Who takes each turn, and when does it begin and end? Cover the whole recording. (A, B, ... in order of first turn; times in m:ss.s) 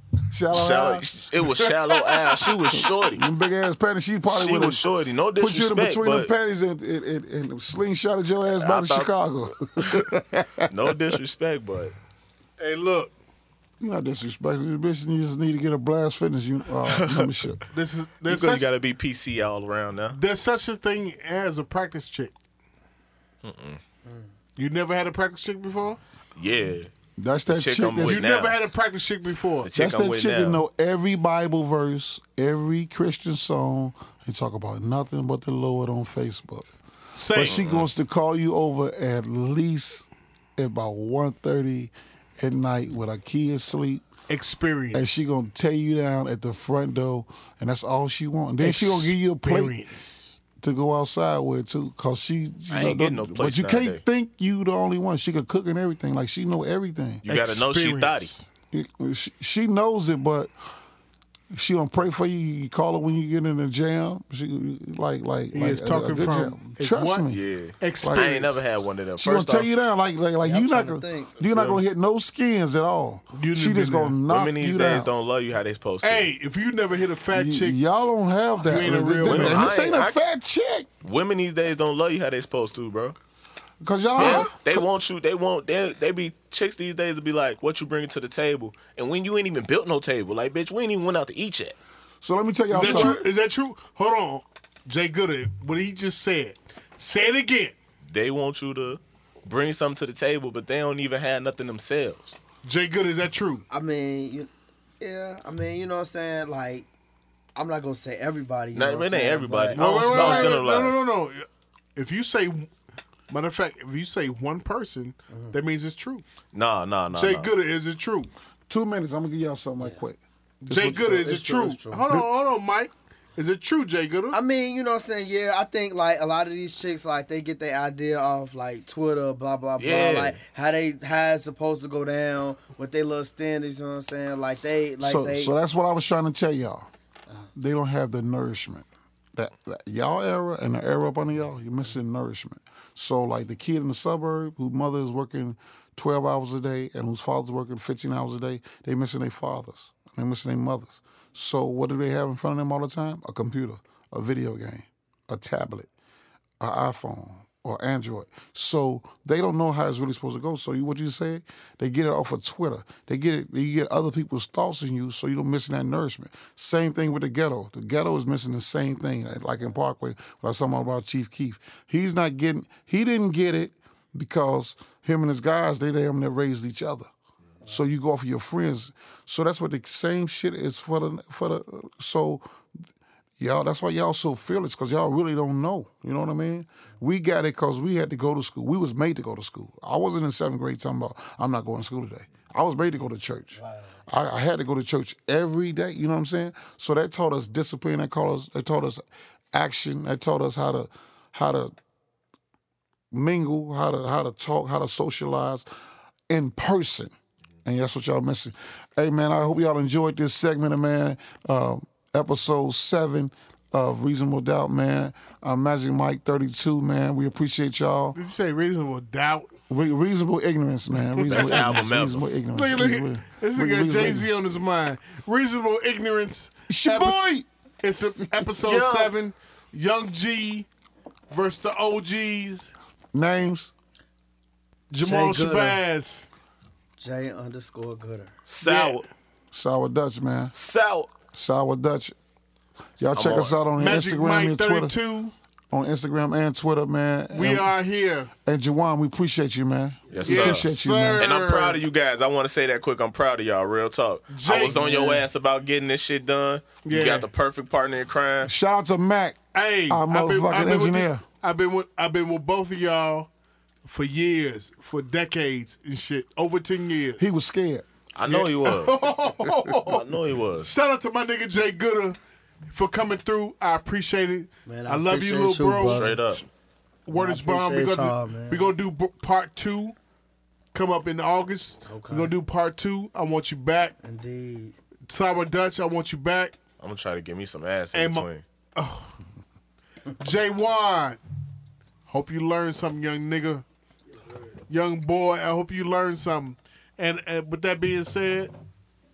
0:00.3-0:01.1 A
0:00.5-0:03.3 B
0:02.7-0:11.2 A
0:04.3-0:06.3 B
0:08.6-0:10.1 B
0:10.7-0:11.9 B
0:12.6-0:13.1 C
0:13.8-0:17.6 A
0:16.8-0:17.5 B
0:17.7-0:18.6 C
0:18.3-0:20.2 B
0:20.1-0:22.3 C
0:23.4-0:23.8 B
0:24.6-0:26.0 C
0:26.4-0:26.9 B
0:27.2-0:28.3 A
0:27.5-0:28.6 B
0:28.0-0:29.7 C
0:29.6-0:30.6 B
0:29.7-0:36.7 A
0:37.1-0:37.6 C
0:37.3-0:44.1 A
0:37.4-0:37.9 B
0:44.3-0:45.1 C
0:44.9-0:49.8 A
0:48.6-0:50.4 C
0:50.6-0:57.2 A
0:52.7-0:54.0 B
0:57.2-0:58.4 B
0:57.3-0:58.5 C
0:58.7-1:00.5 A
1:01.5-1:07.4 A
1:05.5-1:07.3 C
1:07.3-1:09.7 B
1:07.8-1:08.6 C
1:08.0-1:08.3 A
1:09.2-1:15.1 A
1:10.4-1:11.4 D
1:11.4-1:11.8 B
1:13.3-1:14.2 C
1:14.3-1:16.3 B
1:16.0-1:17.8 C
1:17.3-1:20.9 A
1:18.6-1:19.7 C
1:19.2-1:20.2 B
1:21.0-1:23.2 B
1:23.8-1:24.9 A
1:24.2-1:24.5 C
1:24.2-1:31.8 B
1:32.2-1:33.2 A
1:32.7-1:33.2 B
1:32.7-1:37.8 C
1:38.1-1:42.4 B
1:42.6-1:43.6 C
1:43.7-1:46.9 D
1:47.6-1:50.6 D
1:48.7-1:51.0 B
1:49.7-1:52.7 C
1:53.3-1:56.2 C
1:56.5-1:57.5 B
1:57.1-1:58.3 C
1:58.7-2:01.3 A
2:00.7-2:04.4 C
2:00.7-2:02.2 D
2:04.3-2:15.5 D
2:09.8-2:10.4 B
2:15.0-2:16.9 A
2:17.6-2:35.9 A
2:36.6-2:57.1 A
2:57.6-3:02.5 A
3:03.4-3:21.7 A
3:13.6-3:13.9 D
3:23.1-3:25.7 A
3:26.3-3:27.1 A
3:27.6-3:38.2 A
3:38.2-3:39.5 C
3:39.7-3:44.3 A
3:41.2-3:41.8 C
3:41.3-3:42.3 B
3:42.5-3:50.7 C
3:46.7-3:47.4 A
3:48.6-3:49.1 B
3:51.3-3:52.7 C
3:53.1-3:53.7 A
3:54.9-3:56.3 C
3:55.0-3:55.8 D
3:57.0-3:58.4 D
3:58.5-3:59.1 B
3:58.6-3:59.1 C
3:59.5-4:00.5 A
4:00.5-4:01.1 B
4:01.3-4:02.2 A
4:03.0-4:05.0 A
4:03.2-4:03.6 B
4:03.8-4:05.3 C
4:05.7-4:07.7 A
4:07.3-4:08.3 C
4:08.4-4:11.3 A
4:10.1-4:18.5 B
4:10.2-4:11.8 C
4:14.3-4:15.2 C
4:16.8-4:17.3 C
4:18.4-4:21.2 A
4:19.5-4:23.3 C
4:23.8-4:27.2 C
4:27.2-4:27.8 A
4:28.2-4:29.1 B
4:28.2-4:30.1 C
4:29.8-4:30.7 B
4:30.6-4:36.4 C
4:34.7-4:36.2 D
4:35.9-4:36.5 B
4:37.1-4:40.0 C
4:37.1-4:38.7 D
4:40.7-4:44.0 C
4:41.8-4:42.4 D
4:44.0-4:44.8 D
4:45.1-4:46.6 C
4:46.8-4:48.4 B
4:47.9-4:49.2 C
4:50.2-4:51.2 C
4:52.1-4:53.6 C
4:54.7-4:58.5 C